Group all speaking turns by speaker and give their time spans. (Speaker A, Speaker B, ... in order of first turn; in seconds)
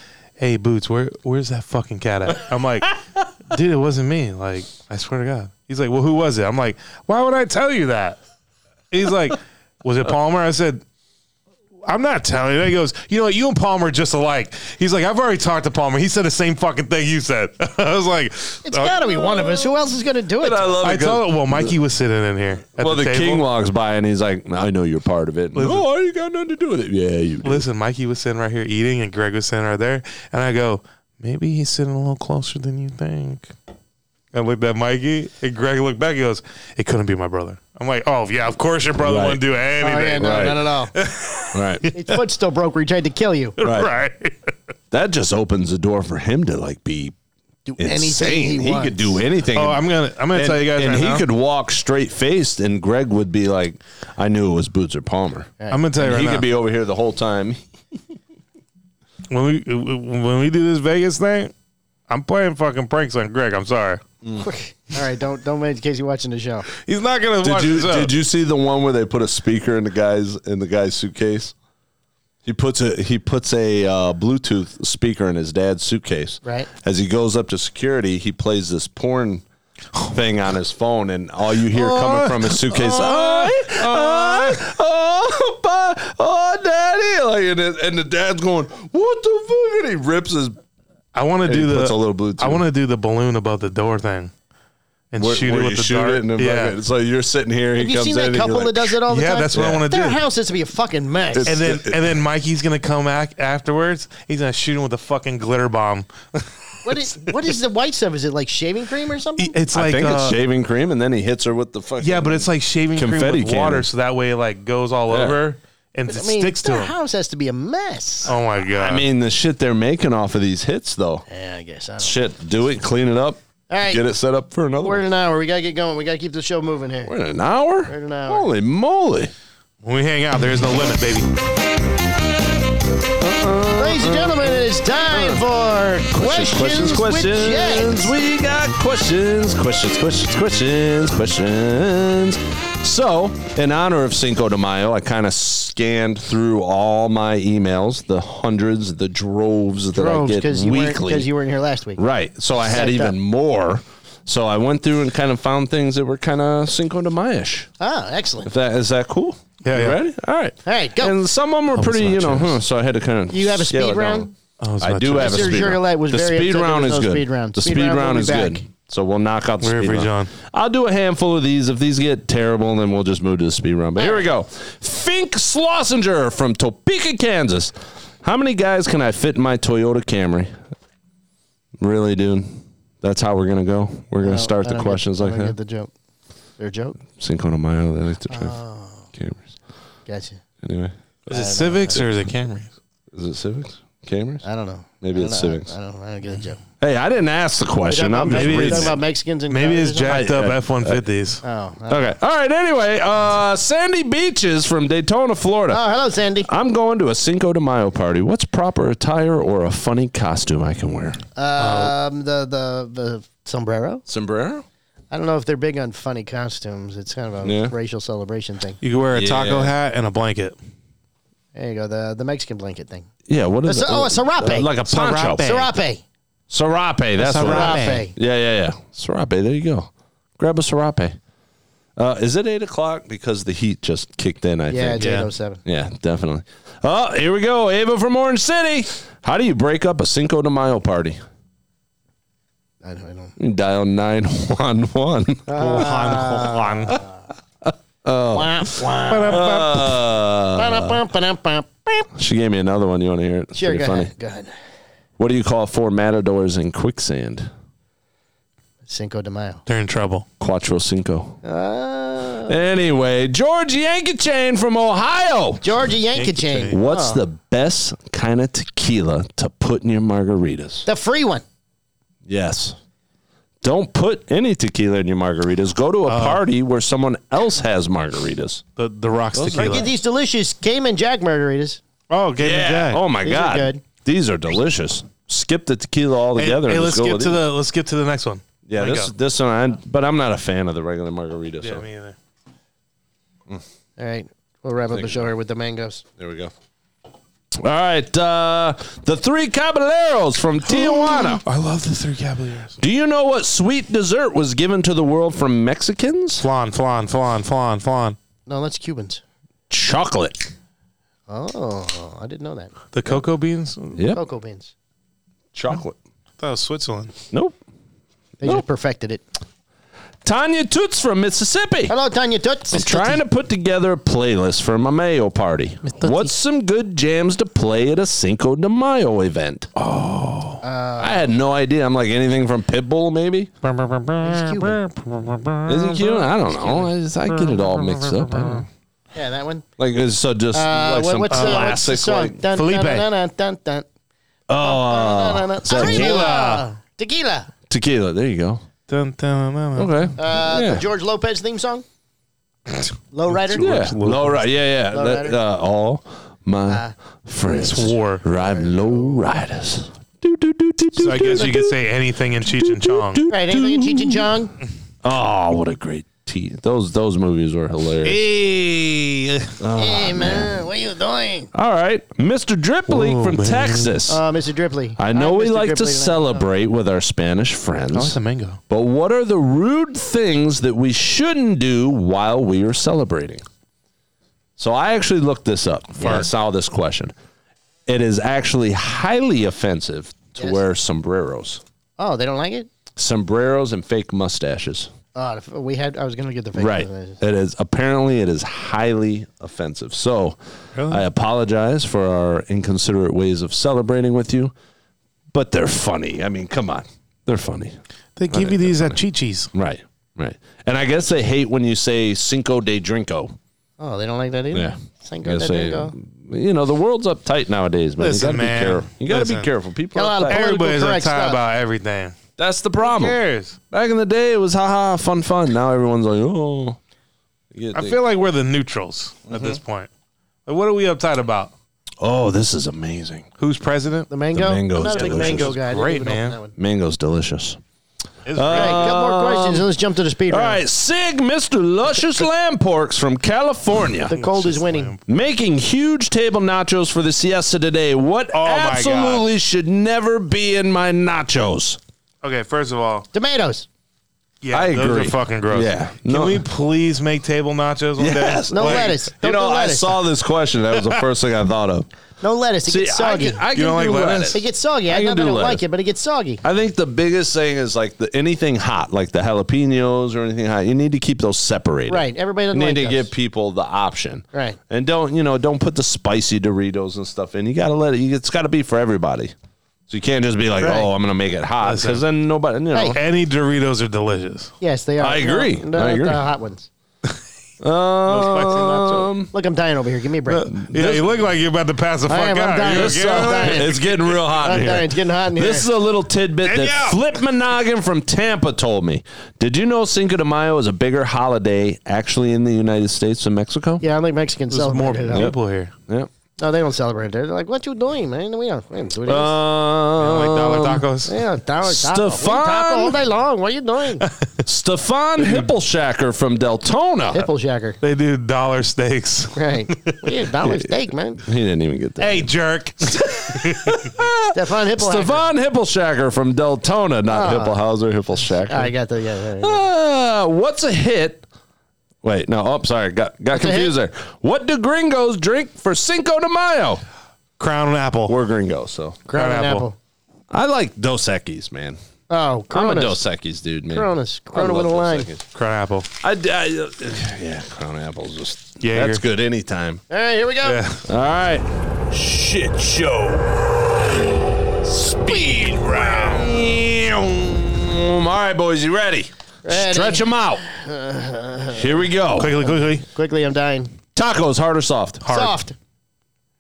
Speaker A: 0.4-2.9, 3.5-8.2, 8.9-10.8, 11.9-19.6, 20.8-23.4, 25.6-25.9, 27.4-33.5, 34.3-42.2, 43.6-44.5, 49.5-51.2, 55.7-56.5, 59.3-61.5, 62.1-64.0, 66.8-68.1, 81.7-84.6, 91.2-94.3, 95.1-96.8, 99.1-100.2, 101.5-107.3, 109.4-110.4, 112.0-116.9, 118.3-119.0, 129.8-131.3, 159.6-160.0, 161.7-162.6, 164.6-165.8, 169.6-170.3, 191.3-192.7, 198.3-201.4, 211.6-211.9, 218.8-220.6, 224.9-225.7, 227.2-228.1, 235.0-235.3, 245.6-247.0, 249.1-249.9, 259.7-260.2, 266.1-266.8, 276.1-276.4, 278.8-279.9, 282.1-283.0, 286.4-289.1, 291.6-292.2, 300.6-302.8, 306.4-308.2, 312.9-314.1, 316.4-317.1, 325.9-326.3, 329.8-330.6, 333.6-338.6, 341.3-342.0, 342.5-343.1, 345.7-346.6, 348.9-350.1, 352.7-354.4, 357.5-358.2, 361.0-363.2, 368.0-369.6, 372.9-373.9, 377.9-378.6, 400.8-401.0, 408.2-409.5, 418.0-419.5, 420.3-422.2, 422.8-423.6, 427.7-429.9, 430.5-431.5, 433.4-434.1, 434.9-436.4, 438.3-439.0, 444.1-445.0, 448.3-449.2, 452.2-453.1, 454.4-459.0, 463.5-464.4, 481.6-482.0, 482.9-484.5, 488.1-489.1, 490.3-493.9, 496.4-497.0, 504.5-505.7, 510.0-511.1, 515.2-515.5, 517.8-520.0, 522.0-523.9, 537.4-538.2, 539.1-539.7, 545.3-545.9, 548.6-549.0, 550.4-550.8, 555.3-556.2, 562.2-562.9
Speaker B: 18.7-20.7, 39.8-40.9, 41.9-43.5, 47.7-49.2, 55.6-55.9, 64.4-66.7, 97.8-101.5, 106.8-109.5, 116.1-118.3, 121.3-122.2, 123.7-124.0, 124.8-127.1, 127.9-128.5, 133.8-138.1, 149.9-152.0, 152.7-153.2, 157.8-158.5, 160.7-161.2, 163.3-164.3, 165.2-168.6, 174.0-174.3, 184.2-185.9, 186.6-187.0, 188.3-189.1, 190.1-190.4, 191.3-192.0, 194.4-196.6, 197.9-200.2, 201.4-202.1, 205.7-206.5, 211.4-214.0, 215.1-218.8, 221.6-223.1, 223.7-224.7, 225.4-226.0, 227.4-228.1, 234.7-235.6, 242.8-243.3, 245.5-247.1, 248.3-249.5, 250.6-252.0, 253.6-254.5, 258.9-259.6, 261.4-262.6, 265.6-267.2, 270.9-271.4, 279.6-281.8, 283.2-283.8, 294.0-296.0, 308.5-309.2, 311.3-312.7, 314.1-314.7, 318.4-319.2, 321.9-323.2, 330.6-331.3, 334.2-334.8, 339.1-339.6, 340.5-343.9, 344.6-347.5, 350.2-351.9, 353.1-353.7, 354.9-355.4, 356.7-356.9, 358.4-359.2, 363.3-364.6, 369.8-371.5, 374.1-376.5, 386.0-386.3, 390.4-390.6, 392.0-392.7, 395.1-397.2, 413.8-415.9, 419.9-421.4, 434.1-436.5, 438.5-440.6, 444.1-444.9, 453.1-453.7, 458.5-459.9, 462.2-463.4, 464.3-466.4, 471.9-473.1, 474.3-474.6, 482.7-483.0, 484.6-486.7, 489.3-490.5, 492.1-495.7, 503.8-505.3, 506.4-509.4, 511.1-514.1, 517.1-517.8, 519.4-521.2, 524.3-525.3, 527.1-527.5, 528.5-529.6, 533.3-533.8, 539.1-539.8, 542.1-543.0, 543.7-545.1, 549.9-550.6, 555.1-556.2, 559.5-563.7, 565.1-565.6
Speaker C: 20.4-21.7, 22.8-27.7, 39.0-39.4, 40.2-40.6, 41.5-41.9, 43.6-43.9, 44.9-47.2, 47.8-57.6, 67.4-71.5, 72.5-79.4, 80.1-90.6, 91.4-92.6, 95.2-99.0, 99.5-99.8, 101.3-102.1, 109.7-113.9, 115.1-115.4, 118.7-121.2, 122.0-125.0, 127.0-129.3, 133.2-135.4, 136.1-151.3, 152.0-157.7, 158.4-164.3, 164.8-180.5, 181.8-185.6, 187.2-188.6, 189.1-189.5, 190.6-191.0, 193.1-194.4, 195.0-195.7, 196.8-199.0, 200.1-201.0, 201.9-205.8, 206.5-211.2, 214.1-214.7, 217.4-217.8, 219.1-219.7, 223.3-225.5, 226.5-231.2, 232.0-235.1, 235.7-241.2, 243.4-245.9, 247.6-251.0, 252.1-254.1, 255.2-257.5, 260.4-261.4, 262.5-265.6, 266.7-270.9, 272.3-272.8, 273.6-278.6, 279.3-279.9, 282.4-287.4, 288.7-291.8, 294.9-295.3, 296.2-296.5, 297.6-301.4, 302.8-306.5, 309.7-310.5, 313.9-314.2, 315.5-316.0, 317.3-317.6, 320.2-321.9, 322.7-329.7, 331.0-333.5, 335.7-338.7, 339.8-342.4, 344.5-346.3, 347.7-348.6, 349.8-350.9, 353.5-361.8, 362.4-364.3, 365.0-368.3, 369.6-370.6, 371.5-374.2, 375.0-378.2, 378.7-383.4, 384.6-387.1, 387.9-391.6, 393.0-394.9, 396.6-404.5, 405.3-407.8, 408.3-409.0, 409.5-413.4, 414.5-420.4, 422.4-423.2, 423.7-426.8, 427.5-428.0, 429.3-429.6, 432.0-433.3, 434.3-435.6, 436.6-437.6, 438.3-439.7, 440.3-444.1, 445.1-451.8, 454.5-456.4, 458.0-461.9, 462.7-465.6, 466.4-479.3, 479.9-483.0, 485.0-486.2, 487.6-489.3, 490.5-491.1, 492.7-503.9, 509.1-510.9, 511.6-513.0, 514.4-517.3, 520.4-522.3, 522.9-528.7, 529.4-531.3, 532.0-536.8, 538.1-539.0, 540.3-541.8, 542.5-545.3, 546.0-549.8, 550.8-554.0, 554.6-560.4, 561.5-562.4, 563.9-565.3